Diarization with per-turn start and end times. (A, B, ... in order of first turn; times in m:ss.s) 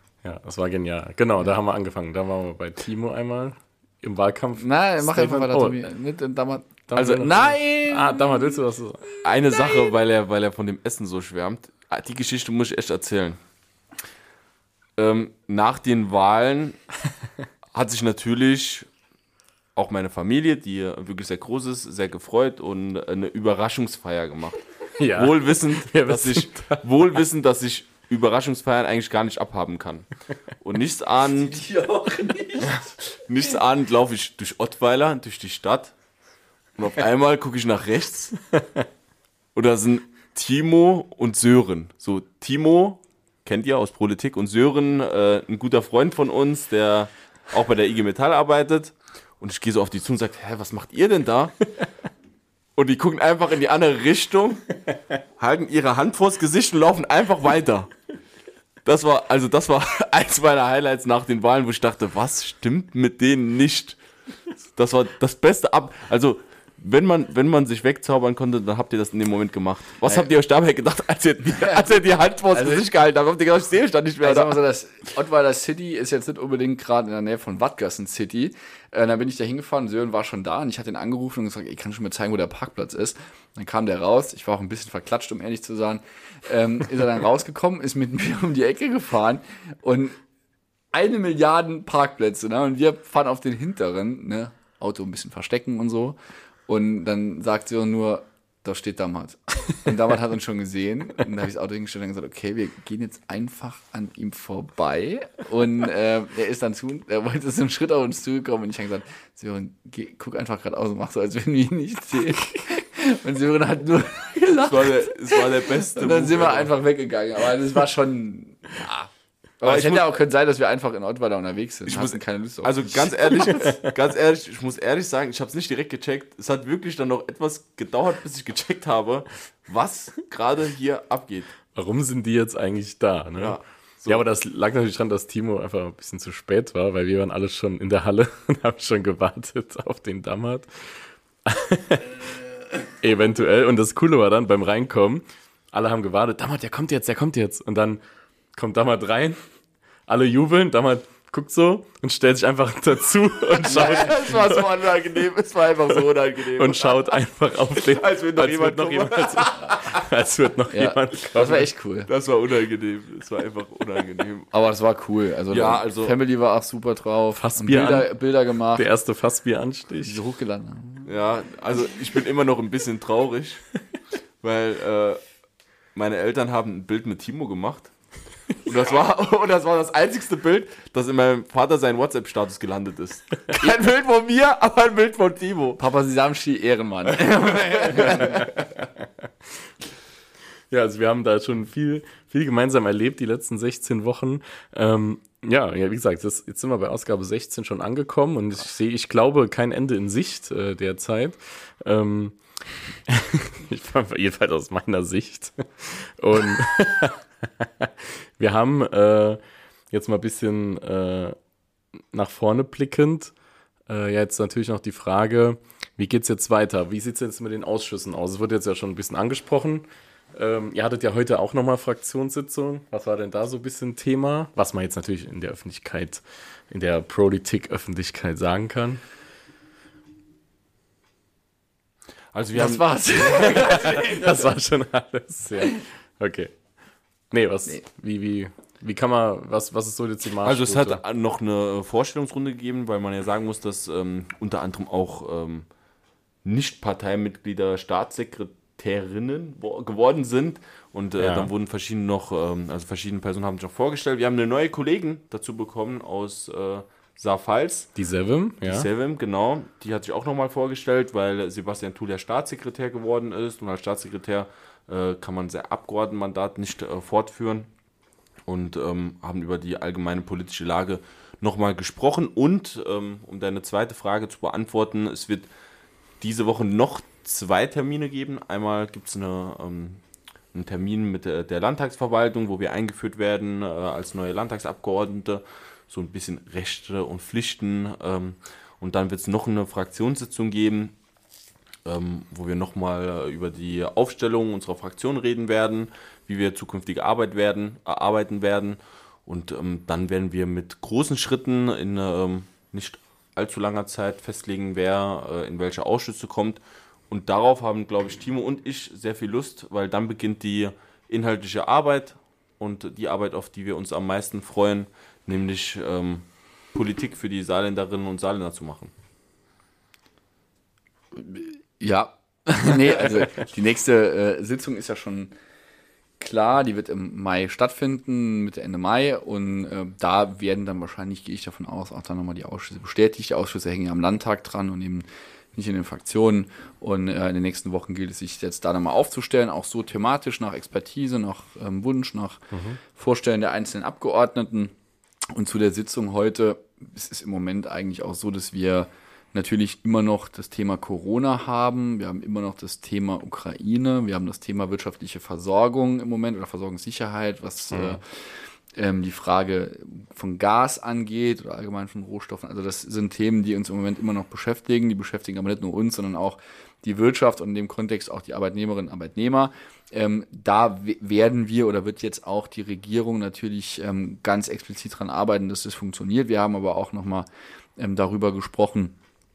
0:00.2-0:05.9 A
0:04.6-0:08.6 B
0:06.9-0:09.1 A
0:07.0-0:07.2 C
0:09.2-0:13.4 C
0:15.0-0:16.8 C
0:17.7-0:18.9 C
0:19.7-0:24.6 C
0:25.0-0:26.8 A
0:25.1-0:30.1 C
0:30.6-0:31.6 C
0:31.4-0:32.9 B
0:32.6-0:35.9 C
0:36.8-0:38.4 C
0:39.5-0:51.5 C
0:52.8-0:54.8 C
0:55.4-0:57.9 C
0:58.8-1:04.0 C
1:04.8-1:14.6 C
1:11.5-1:11.9 B
1:12.5-1:12.9 B
1:14.2-1:30.2 B
1:30.9-1:59.1 B
1:54.6-1:56.7 C
1:59.6-2:03.7 B
1:59.6-2:00.0 C
2:01.8-2:11.5 C
2:11.7-2:22.2 A
2:13.4-2:14.2 C
2:23.0-2:28.0 A
2:28.5-2:29.4 A
2:30.1-2:34.4 A
2:33.5-2:37.2 C
2:36.6-2:41.6 A
2:37.7-2:40.0 C
2:40.7-2:42.1 B
2:42.1-2:44.5 C
2:44.5-2:48.9 B
2:45.5-2:46.2 C
2:47.4-2:48.1 A
2:48.7-2:50.2 A
2:50.0-2:51.1 B
2:51.0-2:53.6 C
2:54.4-2:55.2 C
2:55.9-2:57.9 C
2:58.5-3:05.8 C
3:05.8-3:08.6 B
3:08.1-3:09.0 A
3:10.7-3:22.4 A
3:23.1-3:29.4 A
3:29.9-3:31.4 A
3:32.1-3:33.3 A
3:33.9-3:49.0 A
3:52.3-3:53.8 C
3:52.5-3:54.4 B
3:53.7-3:56.5 A
3:57.3-4:01.0 A
4:00.4-4:05.6 C
4:06.4-4:17.9 C
4:11.2-4:11.5 A
4:18.0-4:18.9 A
4:18.6-4:27.7 C
4:28.4-4:35.5 C
4:36.2-4:40.0 C
4:40.5-4:50.9 C
4:51.8-5:18.9 C
5:21.1-5:25.3 B
5:26.2-5:44.7 B
5:42.5-5:42.8 A
5:45.3-6:19.0 B
5:57.7-5:58.0 A